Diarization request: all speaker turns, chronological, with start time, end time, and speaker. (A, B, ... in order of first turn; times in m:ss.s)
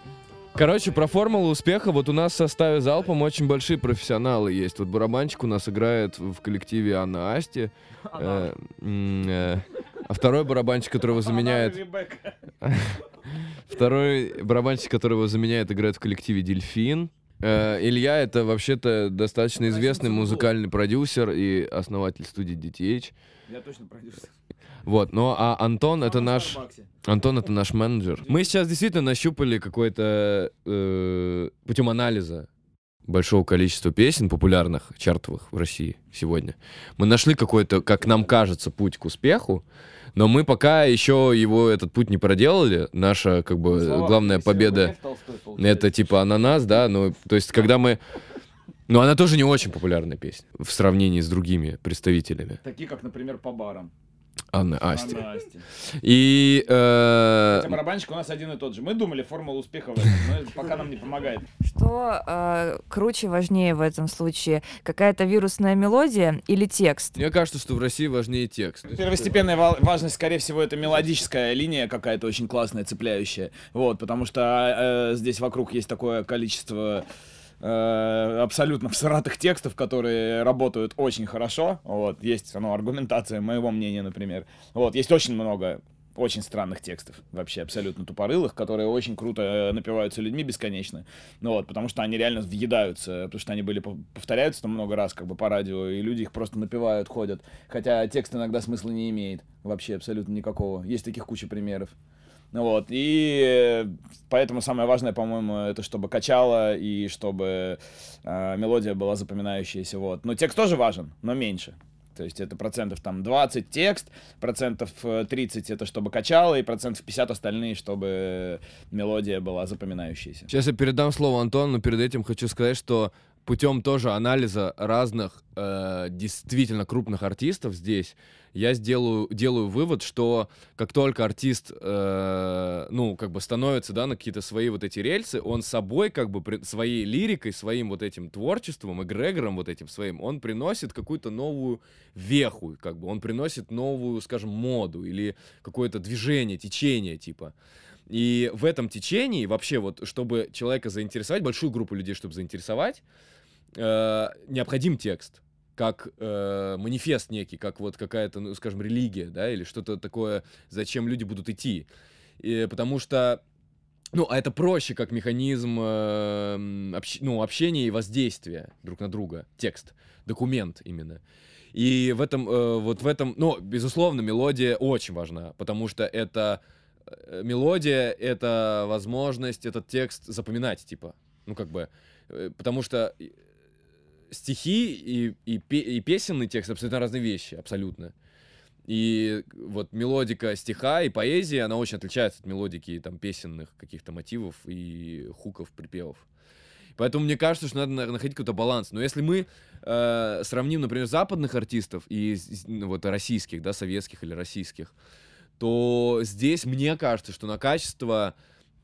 0:00.6-0:11.8 A
0:08.1-0:08.5 B
0:11.1-0:12.4 B
0:12.6-0:23.1 A
0:19.6-0:20.5 B
0:23.5-0:24.3 B
0:24.9-0:32.5 A
0:26.0-0:26.9 B
0:28.2-0:28.5 B
0:33.1-0:39.6 A
0:40.2-0:45.0 A
0:43.7-0:46.0 B
0:45.6-0:48.0 A
0:48.9-0:52.6 A
0:52.6-0:53.9 B
0:54.5-0:55.2 A
0:54.9-0:55.7 B
0:56.0-0:57.8 A
0:57.5-1:01.5 B
1:01.6-1:07.2 C
1:07.2-1:09.5 A
1:08.9-1:17.0 B
1:17.6-1:41.9 B
1:42.5-2:00.5 B
2:00.5-2:27.5 A
2:28.1-2:33.0 A
2:33.8-2:41.9 A
2:42.4-2:43.4 A
2:44.1-2:51.2 A
2:51.7-3:03.3 A
3:04.3-3:08.1 A
3:08.9-3:16.2 A
3:17.0-3:24.9 A
3:25.6-3:28.3 A